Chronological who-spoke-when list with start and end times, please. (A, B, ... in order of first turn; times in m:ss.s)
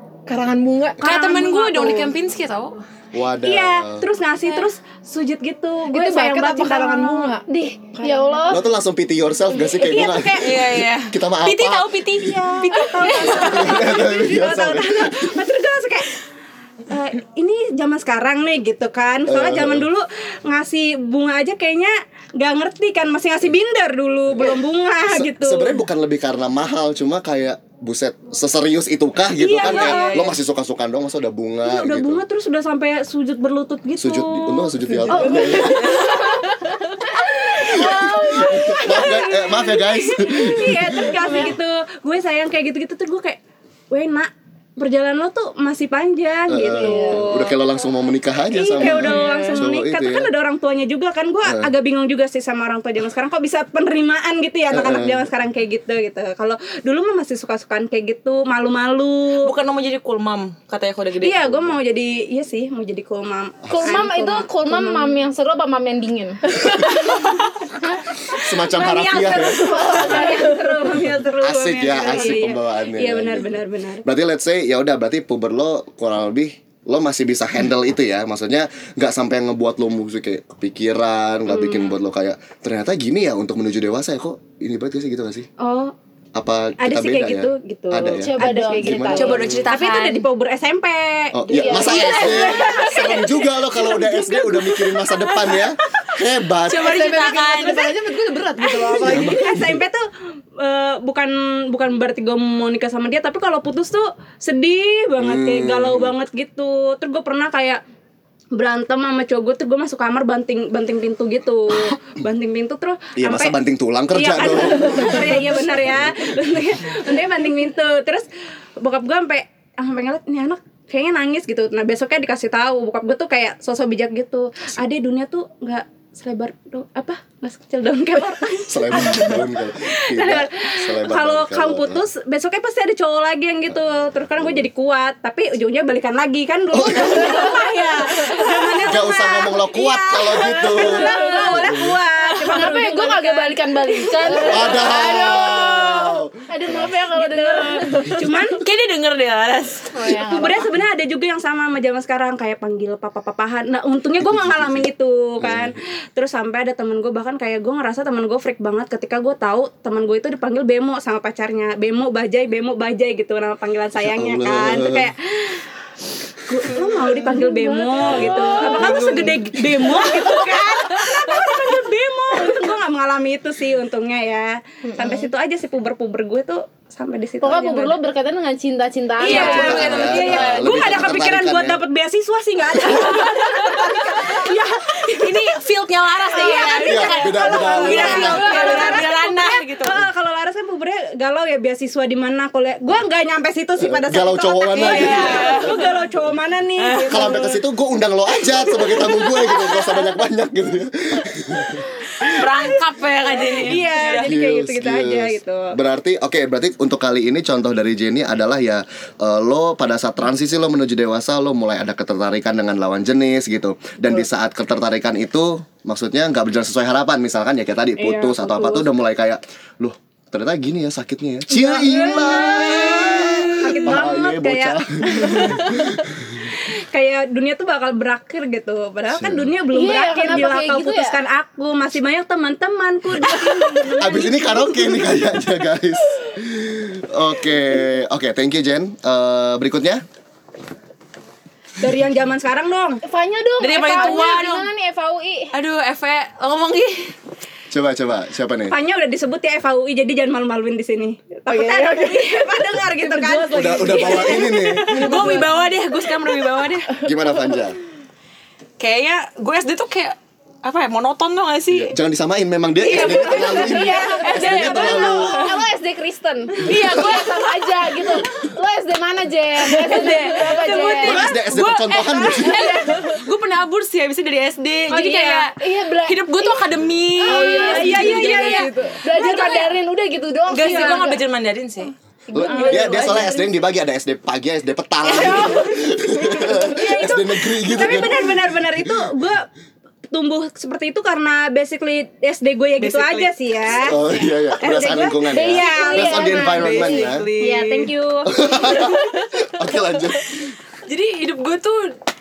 0:00.3-0:02.1 A
0:01.0-0:02.8 B
0:03.1-0:04.1 C
0:03.4-0:07.4 D
0:05.9-0:08.4 A
0:07.5-0:08.6 E
0:08.5-0:12.0 C
0:09.8-0:10.6 D
0:09.9-0:13.9 B
0:12.1-0:16.1 D
0:13.4-0:15.3 C
0:16.9-0:25.8 D
0:19.3-0:19.9 C
0:24.3-0:32.2 C
0:29.4-0:30.3 D
0:29.6-0:30.3 B
0:31.6-0:36.4 D
0:34.0-0:35.8 C
0:35.1-0:39.3 E
0:35.6-0:36.1 B
0:37.2-0:43.4 D
0:37.6-0:41.2 C
0:43.9-0:47.5 D
0:46.5-0:50.3 C
0:46.7-0:47.4 E
0:48.5-0:59.5 D
0:48.9-0:49.2 E
0:49.0-0:49.4 B
0:51.4-0:51.7 C
0:54.7-0:55.2 C
0:59.4-1:01.4 B
1:01.2-1:05.2 D
1:03.6-1:03.9 C
1:03.7-1:07.0 E
1:07.0-1:07.4 D
1:08.3-1:10.2 C
1:08.6-1:14.0 D
1:09.5-1:10.7 E
1:09.8-1:10.5 A
1:11.4-1:25.4 C
1:25.6-1:25.9 D
1:26.4-1:29.7 C
1:26.8-1:35.5 D
1:28.0-1:29.5 E
1:29.1-1:30.2 B
1:31.3-1:37.0 C
1:31.5-1:33.1 E
1:36.7-1:37.9 B
1:36.8-1:39.4 A
1:38.6-1:40.0 D
1:39.0-1:39.8 C
1:40.6-1:47.8 D
1:45.2-1:46.1 C
1:48.5-1:53.6 D
1:53.2-1:56.1 C
1:54.1-1:58.2 D
1:58.8-2:25.6 D
2:08.7-2:12.0 C
2:16.7-2:17.6 C
2:17.1-2:18.3 E
2:18.9-2:21.1 C
2:20.9-2:21.7 E
2:22.2-2:22.6 B
2:22.4-2:28.4 E
2:24.3-2:26.9 C
2:27.1-2:28.6 D
2:28.5-2:30.2 B
2:29.9-2:30.7 E
2:30.2-2:45.6 D
2:34.2-2:34.8 C
2:35.4-2:35.7 C
2:44.0-2:45.1 C
2:46.4-2:58.0 D
2:47.0-2:49.3 E
2:48.0-2:50.3 C
2:54.9-2:55.3 E
2:57.4-3:00.1 E
2:59.2-3:01.1 B
2:59.2-3:05.6 D
2:59.3-3:01.8 C
3:03.1-3:04.5 B
3:05.1-3:10.0 B
3:06.2-3:17.6 D
3:06.8-3:08.5 C
3:08.0-3:09.0 E
3:13.8-3:15.5 C
3:14.7-3:15.9 B
3:16.8-3:17.3 B
3:17.1-3:22.3 C
3:18.4-3:19.9 B
3:22.2-3:24.3 B
3:22.2-3:22.7 D
3:23.3-3:25.8 D
3:24.1-3:46.4 C
3:38.0-3:38.9 D
3:41.5-3:46.0 D
3:46.5-3:54.9 D
3:49.1-3:49.5 C
3:49.7-3:51.2 E
3:54.0-4:00.0 C
4:01.8-4:03.0 D
4:03.0-4:05.5 E
4:03.6-4:04.7 B
4:03.9-4:04.3 D
4:05.5-4:07.1 B
4:07.7-4:08.7 C
4:08.7-4:14.6 D
4:11.5-4:15.6 A
4:13.5-4:15.2 C
4:13.9-4:16.9 B
4:17.0-4:17.8 C
4:18.8-4:21.9 B
4:21.7-4:25.5 C
4:22.8-4:31.2 E
4:22.9-4:25.6 B
4:23.0-4:24.3 D
4:26.6-4:28.2 B
4:29.6-4:39.7 B
4:30.4-4:31.0 D
4:31.0-4:32.6 C
4:32.3-4:33.1 E
4:34.9-4:35.5 D
4:35.6-4:36.7 E
4:37.2-4:38.4 E
4:37.2-4:39.6 D
4:37.6-4:39.0 A
4:39.0-4:41.2 E
4:40.5-4:41.9 B
4:40.6-4:41.1 D
4:42.3-4:43.4 E
4:42.3-4:49.0 C
4:42.4-4:43.3 D
4:45.0-4:45.5 B
4:45.1-4:45.4 E
4:45.2-4:45.6 D
4:46.5-4:49.4 D
4:50.1-4:54.0 D
4:52.8-4:53.9 B
4:53.8-4:57.2 C
4:54.6-4:56.8 D
4:55.3-4:57.1 E
4:55.8-4:57.9 B
4:57.4-4:58.9 D
4:58.3-5:00.5 C
5:00.9-5:01.9 B